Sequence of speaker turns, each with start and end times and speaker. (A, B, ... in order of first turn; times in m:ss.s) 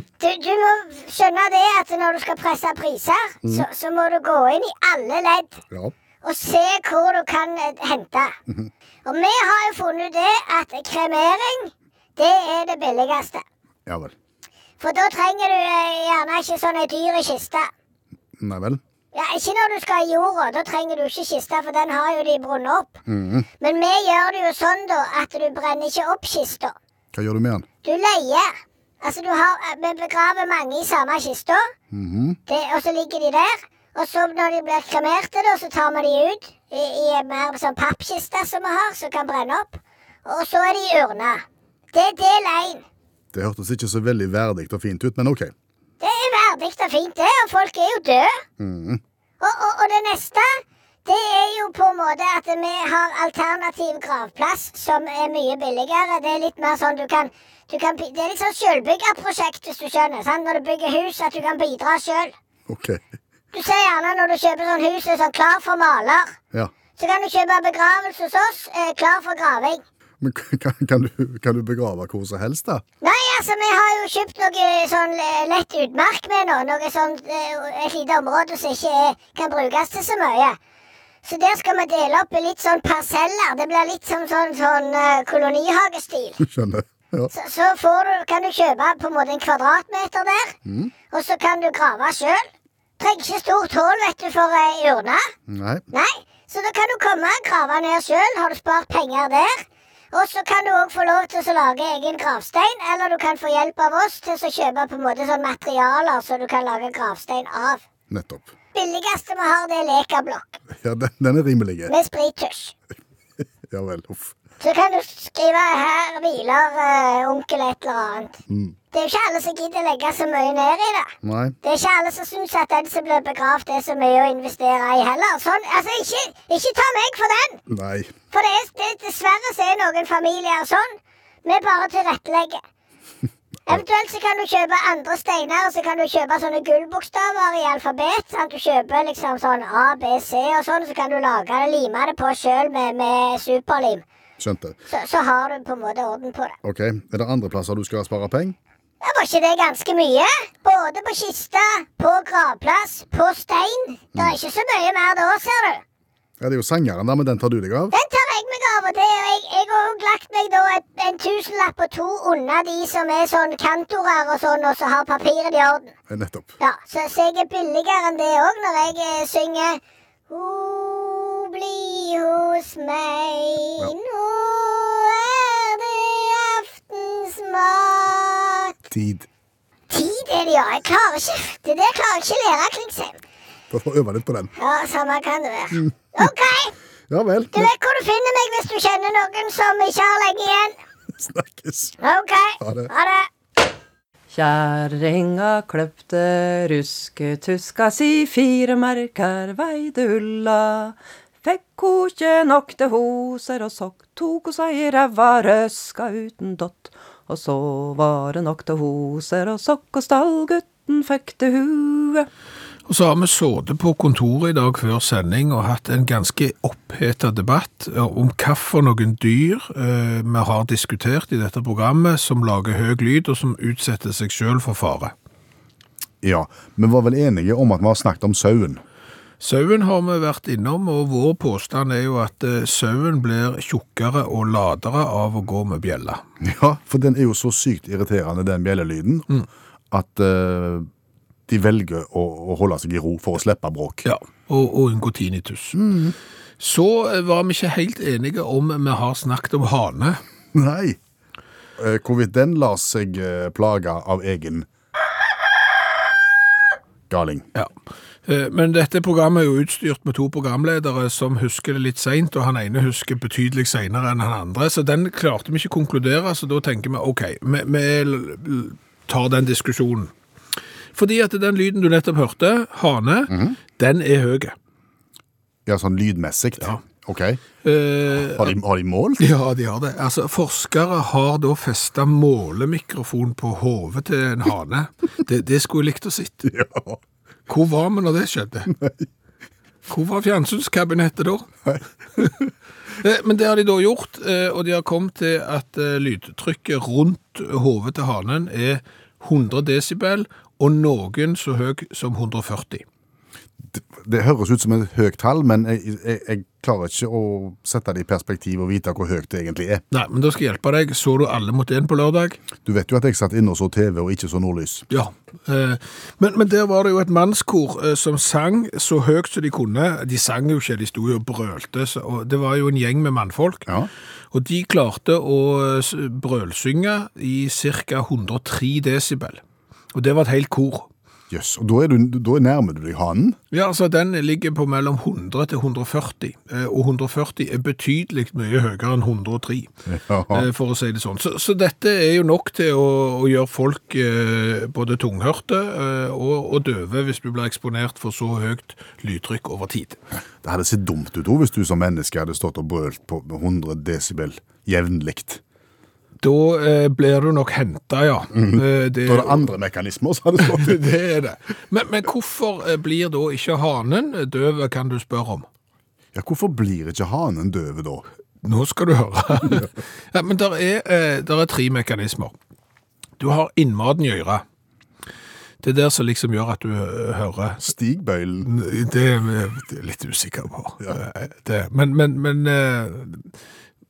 0:00.2-0:05.6 A
0:06.2-0:08.3 A
0:09.0-0:13.4 A
0:13.8-0:14.1 B
0:14.8-0:17.7 A
0:18.4-0:18.8 B
0:19.1-0:23.0 A
0:23.1-0:23.5 B
0:23.6-0:26.7 A
0:27.1-0:27.7 B
0:27.8-0:28.5 A
0:29.0-0:31.7 A
0:31.9-0:32.4 B
0:32.5-0:42.8 A
0:43.3-0:45.5 B
0:46.0-0:48.4 A
0:48.6-0:49.0 B
0:49.4-1:02.3 A
1:02.7-1:03.0 B
1:03.5-1:06.4 A
1:07.0-1:09.8 A
1:10.2-1:12.8 B
1:13.0-1:20.6 A
1:21.2-1:26.4 A
1:26.4-1:27.3 B
1:27.3-1:30.5 A
1:30.6-1:30.9 B
1:31.1-1:32.5 A
1:33.0-1:35.3 A
1:35.5-1:35.8 B
1:35.9-1:47.8 A
1:48.1-1:48.5 B
1:48.7-1:50.6 A
1:50.7-1:51.9 B
1:51.9-1:52.7 A
1:53.7-1:54.3 B
1:54.6-1:58.4 A
1:58.5-1:58.8 B
1:58.9-2:07.6 A
2:01.2-2:01.6 B
2:07.7-2:08.1 B
2:08.3-2:12.6 A
2:13.7-2:24.0 A
2:24.4-2:24.8 B
2:24.9-2:26.6 A
2:26.6-2:28.6 B
2:29.0-2:35.8 A
2:36.4-2:37.9 B
2:37.9-2:45.9 A
2:46.1-2:46.5 B
2:46.6-2:58.7 A
2:58.9-2:59.3 B
2:59.9-3:03.2 A
3:03.7-3:04.5 B
3:04.6-3:06.8 A
3:07.1-3:07.7 B
3:07.5-3:10.7 A
3:11.2-3:12.0 B
3:12.0-3:13.3 A
3:12.6-3:12.9 B
3:14.4-3:32.2 C
3:32.9-3:45.1 D
3:46.2-3:48.8 B
3:49.4-3:56.2 D
3:56.4-3:59.2 B
3:59.9-4:00.9 B
4:01.5-4:04.0 B
4:04.0-4:05.8 D
4:05.7-4:06.1 B
4:06.6-4:10.2 D
4:10.5-4:11.0 B
4:11.8-4:14.7 B
4:17.1-4:17.5 B
4:18.2-4:30.1 D
4:30.9-4:34.5 D
4:33.3-4:33.6 B
4:35.6-4:37.4 B
4:37.6-4:38.5 D
4:38.2-4:39.2 B
4:39.2-4:46.5 D
4:46.4-4:47.0 B
4:47.5-4:48.7 D
4:48.7-4:49.1 B
4:49.9-4:51.7 D
4:51.7-4:52.5 B
4:53.0-5:02.8 D
5:03.7-5:09.8 B
5:09.9-5:12.4 D
5:12.6-5:14.8 B
5:14.9-5:23.7 D
5:24.3-5:29.4 D
5:29.9-5:30.9 D
5:31.3-5:33.4 B
5:33.5-5:39.7 D
5:39.9-5:40.5 B
5:40.3-5:50.0 D
5:50.4-5:55.4 B
5:56.2-5:59.5 D
5:58.3-6:00.8 B
6:00.4-6:05.4 D
6:06.1-6:08.0 B
6:08.4-6:12.3 D
6:13.2-6:14.4 D
6:15.6-6:17.7 D
6:17.6-6:18.5 B
6:18.4-6:23.3 D